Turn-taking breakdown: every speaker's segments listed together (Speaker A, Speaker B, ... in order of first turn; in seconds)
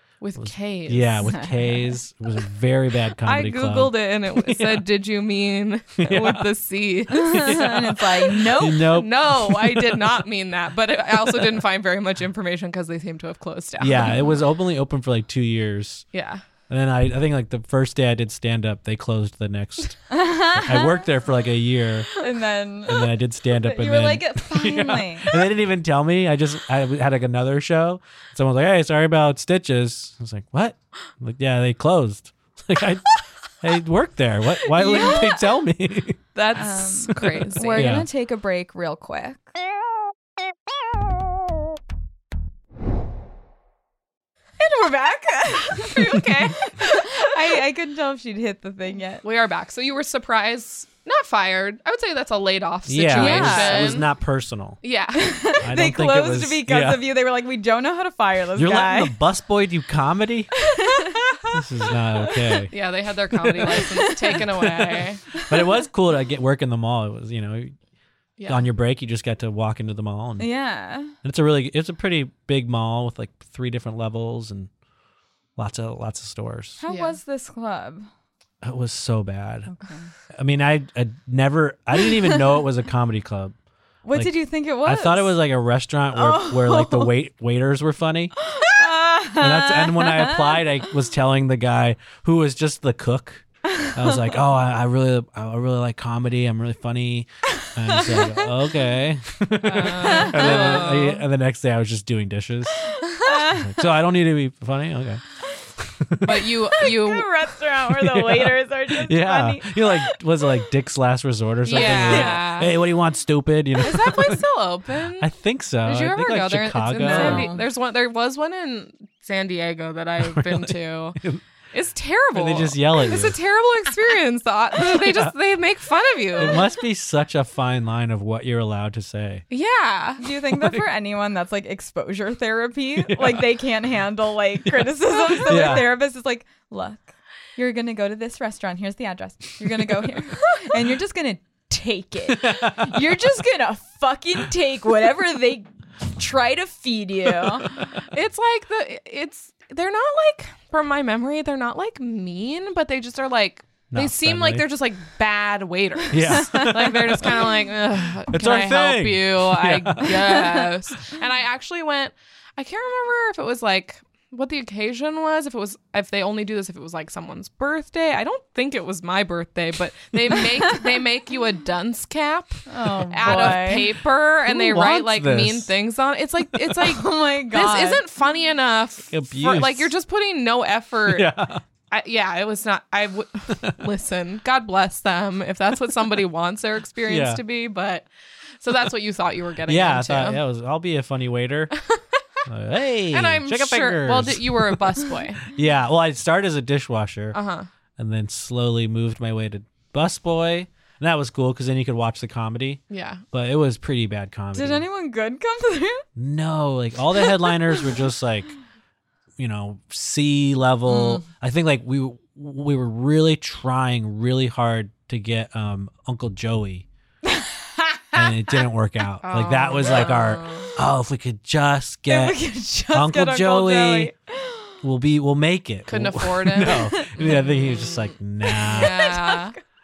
Speaker A: 0.2-1.4, 3.2-7.7, 8.7-14.2, 16.1-16.4, 34.7-35.4, 36.4-38.0, 45.9-47.2, 49.2-54.1, 54.8-55.5, 62.7-65.2, 68.4-68.7, 76.9-77.2, 99.6-101.2, 106.2-107.3, 111.7-112.7, 113.8-115.3, 115.8-121.2, 121.7-126.7, 129.5-130.2, 148.0-181.3, 181.9-188.1, 188.6-190.4, 193.1-195.4, 197.3-197.7, 202.9-203.2, 219.2-220.7, 225.9-228.1, 228.7-229.6
Speaker B: 0.4-4.9, 6.0-6.5, 7.2-10.2, 13.8-16.1, 16.7-22.1, 22.9-36.3, 37.1-38.1, 52.9-54.8, 55.6-57.0, 58.6-60.5, 61.5-62.7, 64.5-67.8, 68.5-70.5, 71.2-74.7, 75.6-76.8, 78.6-79.7, 80.3-83.5, 84.1-88.3, 89.4-102.9, 103.5-105.2, 105.8-106.5, 107.9-114.4, 115.2-117.5, 120.2-121.4, 122.3-123.4, 124.9-125.3, 126.4-129.4, 130.5-130.9, 133.0-133.6, 134.6-135.9, 142.3-143.2, 153.9-154.7, 156.1-157.5, 158.3-160.7, 173.2-173.8, 174.5-175.7, 179.1-179.9, 181.1-181.6, 187.1-187.4, 189.7-191.7, 192.5-197.4, 198.0-204.8, 206.2-208.5, 209.4-216.9, 218.1-224.1, 224.8-229.0
Speaker C: 1.2-1.9, 7.1-9.0, 20.1-21.1, 22.2-25.3, 34.8-35.4, 36.5-39.5, 44.6-46.1, 46.6-49.2, 53.1-54.0, 55.2-59.2, 60.7-61.6, 62.2-62.6, 63.6-64.2, 65.4-65.7, 70.4-71.2, 76.8-78.1, 79.7-80.1, 84.0-85.4, 86.1-87.1, 88.4-90.7, 93.7-94.3, 97.9-98.3, 100.0-100.8, 103.0-103.8, 106.7-110.4, 111.7-112.5, 117.0-117.6, 130.2-147.9, 172.7-173.9, 176.8-178.0, 204.5-206.1, 207.2-207.5, 210.9-211.2, 217.3-218.7, 222.1-224.8, 226.8-227.4, 228.4-229.6